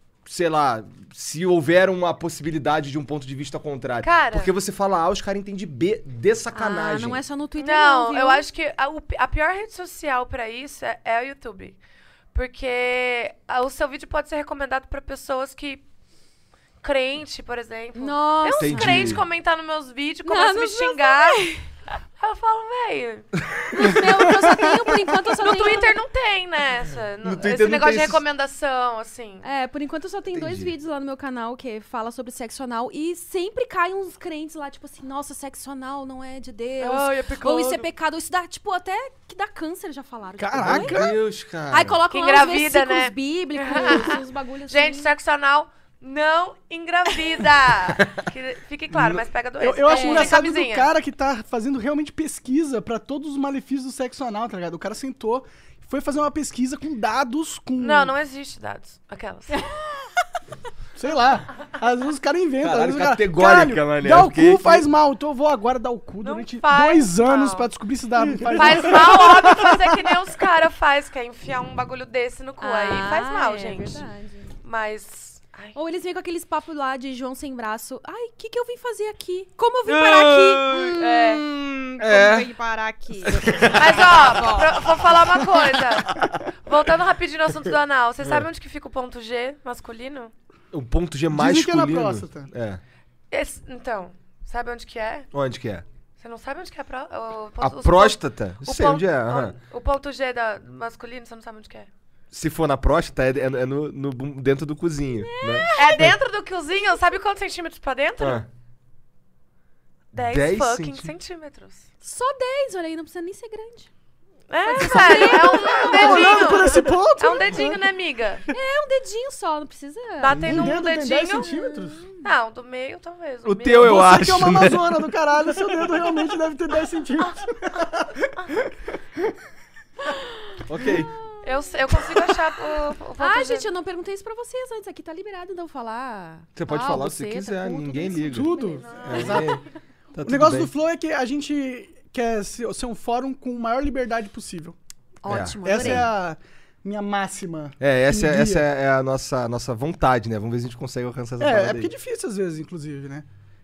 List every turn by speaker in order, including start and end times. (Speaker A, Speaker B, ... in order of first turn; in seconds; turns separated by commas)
Speaker A: 0.2-7.2, Speaker B: 4.0-4.5, Speaker C: 6.5-8.4, Speaker B: 7.6-11.8, Speaker B: 12.3-15.8, Speaker B: 16.8-21.4, Speaker C: 17.9-19.2, Speaker A: 18.6-19.2, Speaker C: 20.2-21.6, Speaker B: 22.2-23.3, Speaker C: 23.7-25.9, Speaker A: 23.7-24.1, Speaker B: 25.4-29.4, Speaker A: 27.2-28.2, Speaker C: 29.4-41.1, Speaker A: 30.3-30.7, Speaker B: 36.8-37.9, Speaker D: 40.4-41.2, Speaker A: 40.6-42.0, Speaker C: 41.7-45.1, Speaker B: 42.1-50.9, Speaker A: 48.9-49.2, Speaker D: 49.6-58.1, Speaker C: 49.8-50.4, Speaker B: 57.8-59.6, Speaker D: 61.0-70.1, Speaker A: 62.6-64.9, Speaker B: 66.2-67.7, Speaker B: 68.5-74.0, Speaker C: 72.6-74.5, Speaker B: 74.6-75.8, Speaker C: 75.7-81.4, Speaker A: 79.8-82.5, Speaker B: 81.0-81.4, Speaker C: 82.0-84.7, Speaker A: 83.2-84.5, Speaker B: 83.7-90.3, Speaker A: 88.2-88.5, Speaker A: 90.7-92.8, Speaker D: 91.3-92.5, Speaker B: 93.3-95.3, Speaker A: 95.3-95.8, Speaker B: 96.2-101.9, Speaker A: 97.6-99.5, Speaker A: 102.3-106.2, Speaker C: 105.1-106.0, Speaker B: 105.8-108.4, Speaker A: 108.2-108.5, Speaker B: 110.1-111.8, Speaker A: 110.2-111.1, Speaker C: 112.0-113.9, Speaker B: 114.5-118.4, Speaker C: 114.6-116.8, Speaker D: 114.8-117.8, Speaker C: 118.5-120.7, Speaker B: 120.2-121.5, Speaker D: 120.3-122.0, Speaker C: 121.4-122.2, Speaker B: 122.2-124.0, Speaker A: 123.4-125.0, Speaker D: 123.8-128.3, Speaker A: 130.6-131.1, Speaker C: 130.8-131.5, Speaker B: 131.4-133.7, Speaker C: 133.2-139.4, Speaker A: 136.6-139.6, Speaker D: 138.3-139.6, Speaker B: 138.8-139.6, Speaker A: 140.1-140.7, Speaker D: 140.2-144.8, Speaker C: 145.2-146.1, Speaker A: 145.3-146.1, Speaker D: 145.6-148.6, Speaker A: 147.8-151.9, Speaker D: 151.4-153.2